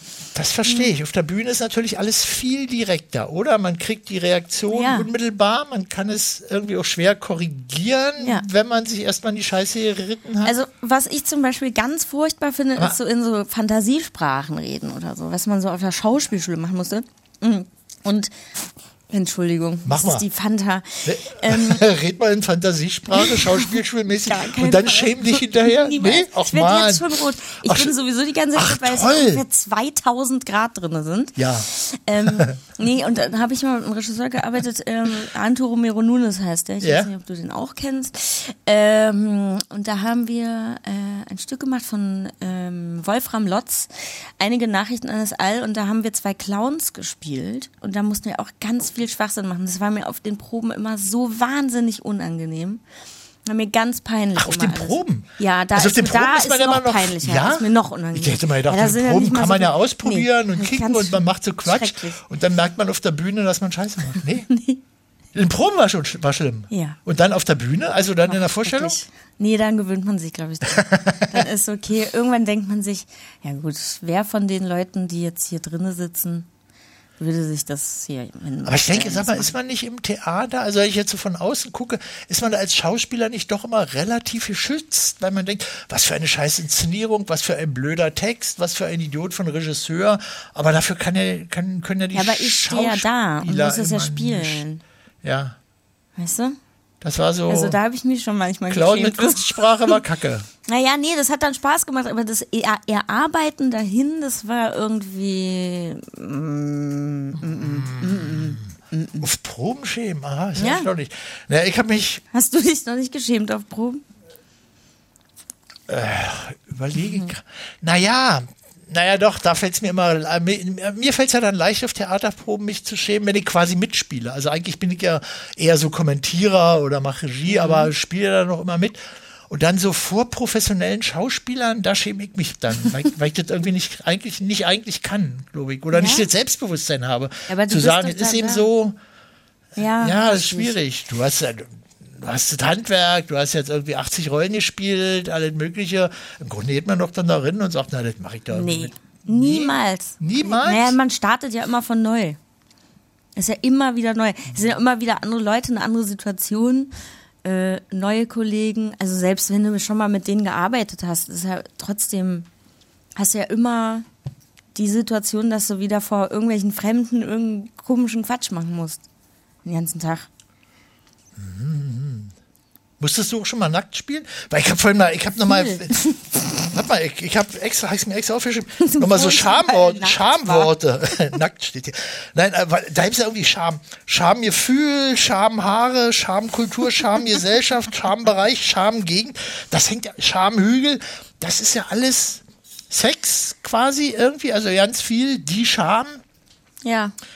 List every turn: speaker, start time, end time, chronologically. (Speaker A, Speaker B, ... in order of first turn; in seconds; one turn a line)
Speaker A: 0.3-10.5
Speaker B: 0.7-0.9
Speaker B: 4.7-5.1
Speaker B: 8.2-8.5
Speaker B: 10.4-18.3
Speaker B: 19.1-21.8
Speaker A: 19.9-20.2
Speaker A: 21.1-27.9
Speaker B: 23.1-52.8
Speaker A: 28.5-29.4
Speaker A: 31.4-31.7
Speaker A: 32.3-32.6
Speaker A: 36.8-37.1
Speaker B: 53.5-62.2
Speaker A: 54.4-64.5
Speaker B: 64.5-64.8
Speaker A: 65.3-69.0
Speaker B: 66.7-67.0
Speaker B: 68.3-76.5
Speaker A: 70.7-71.4
Speaker B: 77.2-79.5
Speaker A: 78.7-94.6
Speaker B: 92.1-94.8
Speaker A: 95.2-95.6
Speaker B: 96.2-96.6
Speaker A: 97.0-97.8
Speaker B: 97.5-100.0
Speaker A: 98.7-100.5
Speaker B: 100.7-109.2
Speaker A: 107.4-112.2
Speaker B: 110.6-110.9
Speaker B: 112.3-114.0
Speaker A: 115.9-139.0
Speaker B: 117.0-117.3
Speaker B: 127.5-127.9
Speaker B: 135.9-136.3
Speaker B: 137.5-138.7
Speaker B: 139.8-140.8
Speaker A: 140.0-151.0
Speaker B: 148.5-152.4
Speaker B: 153.4-156.9
Speaker B: 157.4-162.5
Speaker B: 163.2-164.1
Speaker B: 164.8-169.0
Speaker B: 169.7-170.3
Speaker A: 171.4-172.3
Speaker A: 173.0-196.2
Speaker B: 175.5-176.2
Speaker B: 178.8-180.7
Speaker B: 196.8-197.2